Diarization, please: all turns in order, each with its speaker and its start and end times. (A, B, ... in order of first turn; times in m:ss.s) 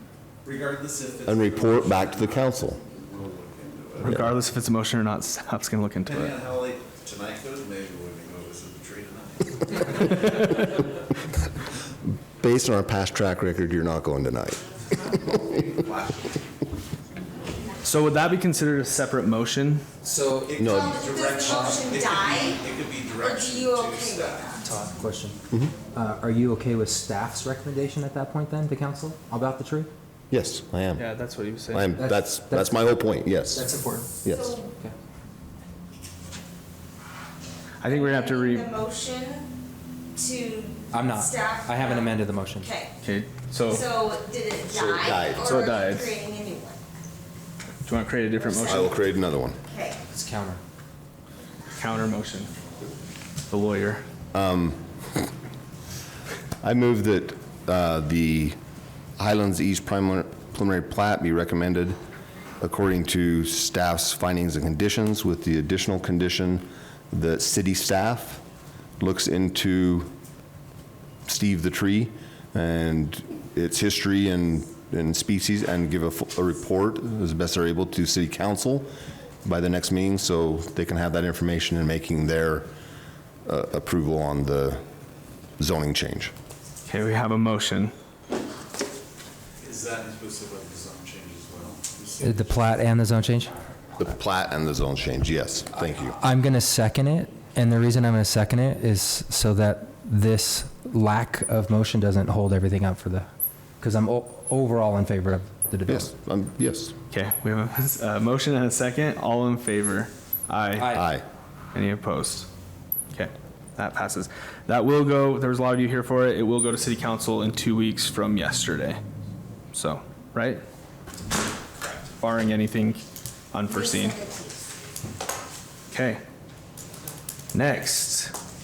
0:00.4-0:04.2 A
0:01.3-0:02.8 B
0:04.0-0:06.3 C
0:06.0-0:10.3 A
0:12.4-0:14.6 B
0:15.7-0:16.3 A
0:17.8-0:19.8 C
0:20.0-0:20.6 D
0:20.5-0:24.6 A
0:20.6-0:21.0 B
0:20.6-0:24.6 E
0:21.5-0:21.8 D
0:24.6-0:25.4 D
0:25.9-0:29.9 D
0:30.3-0:31.0 B
0:31.0-0:31.9 C
0:31.7-0:33.6 B
0:32.0-0:32.9 D
0:33.4-0:34.2 D
0:34.2-0:34.6 B
0:34.2-0:34.7 E
0:37.8-0:38.7 C
0:37.8-0:39.5 E
0:40.2-0:42.9 E
0:40.9-0:42.7 D
0:43.0-0:43.8 C
0:43.7-0:46.8 E
0:44.7-0:45.5 B
0:45.4-0:46.1 C
0:47.8-0:48.9 C
0:48.4-0:49.0 E
0:48.6-0:49.6 B
0:49.7-0:50.0 E
0:50.1-0:50.6 D
0:51.8-0:52.5 C
0:53.5-0:54.0 C
0:54.3-0:54.8 B
0:56.6-0:58.6 B
0:59.2-1:02.0 B
1:02.6-1:08.4 B
1:09.0-1:10.1 B
1:11.2-1:18.9 B
1:19.4-1:22.7 B
1:23.4-1:24.8 B
1:25.6-1:26.3 B
1:26.9-1:27.9 C
1:29.6-1:32.6 A
1:32.2-1:33.5 D
1:34.0-1:36.2 B
1:36.2-1:43.3 D
1:43.8-1:46.1 D
1:45.9-1:47.0 B
1:47.1-1:51.0 C
1:50.8-1:51.0 D
1:50.9-1:51.2 B
1:51.7-1:52.5 C
1:53.1-1:59.0 C
1:59.7-2:00.6 C
2:02.2-2:03.0 C
2:03.5-2:04.2 C
2:03.7-2:04.7 E
2:05.9-2:06.2 C
2:07.5-2:08.3 C